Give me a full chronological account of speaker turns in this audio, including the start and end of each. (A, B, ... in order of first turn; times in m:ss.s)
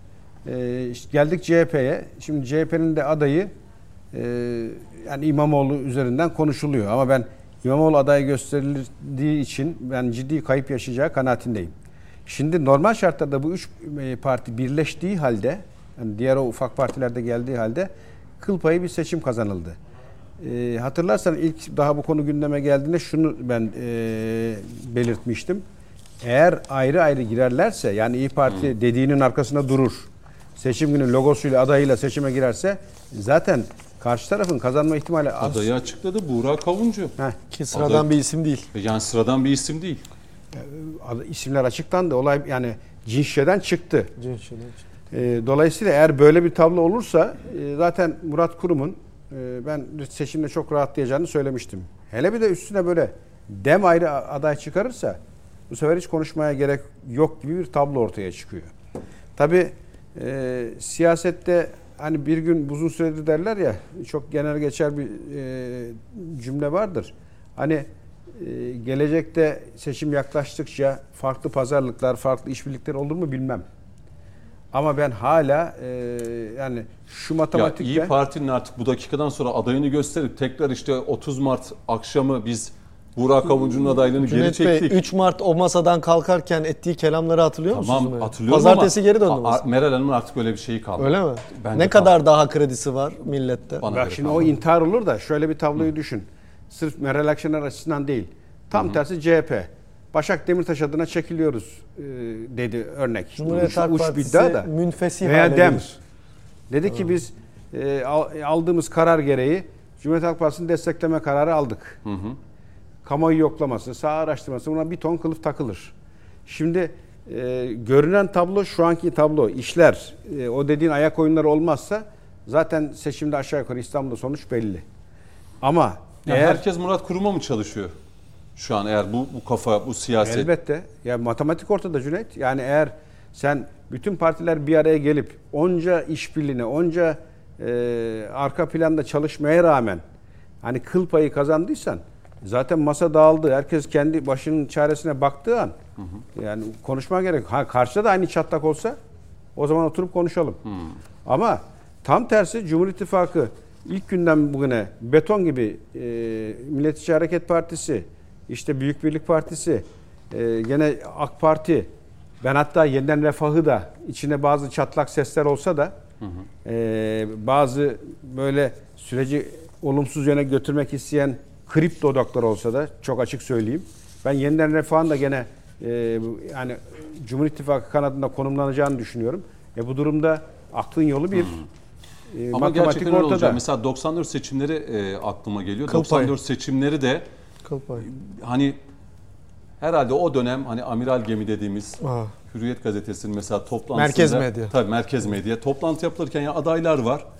0:00.4-0:03.5 A
0:04.1-0:11.7 A
0:12.2-0:19.8 A
0:20.4-0:25.6 A
0:26.2-0:35.7 A
0:35.4-0:37.1 B
0:37.5-0:38.6 C
0:37.7-0:38.1 B
0:38.7-0:40.0 B
0:40.5-0:44.1 A
0:44.2-0:44.8 C
0:45.1-0:58.7 A
0:59.4-1:13.6 A
1:14.7-1:18.1 A
1:17.5-1:25.0 B
1:24.2-1:29.6 C
1:27.7-1:32.1 B
1:31.0-1:33.8 C
1:33.8-1:34.6 B
1:33.9-1:44.7 A
1:38.7-1:39.0 B
1:43.4-1:45.9 C
1:45.2-1:46.0 A
1:46.7-1:52.0 A
1:52.0-1:52.4 B
1:53.0-1:55.9 A
1:56.4-2:04.8 A
2:05.6-2:06.6 A
2:06.2-2:07.9 B
2:08.6-2:10.5 B
2:10.2-2:20.0 A
2:20.6-2:25.8 A
2:26.3-2:29.0 A
2:29.6-2:30.6 A
2:31.2-2:41.9 A
2:42.4-2:46.0 A
2:46.6-3:01.7 A
3:02.3-3:03.6 A
3:02.5-3:07.2 B
3:05.9-3:06.3 C
3:07.6-3:08.1 C
3:08.0-3:08.8 B
3:09.8-3:17.2 B
3:12.0-3:12.3 C
3:13.9-3:14.7 C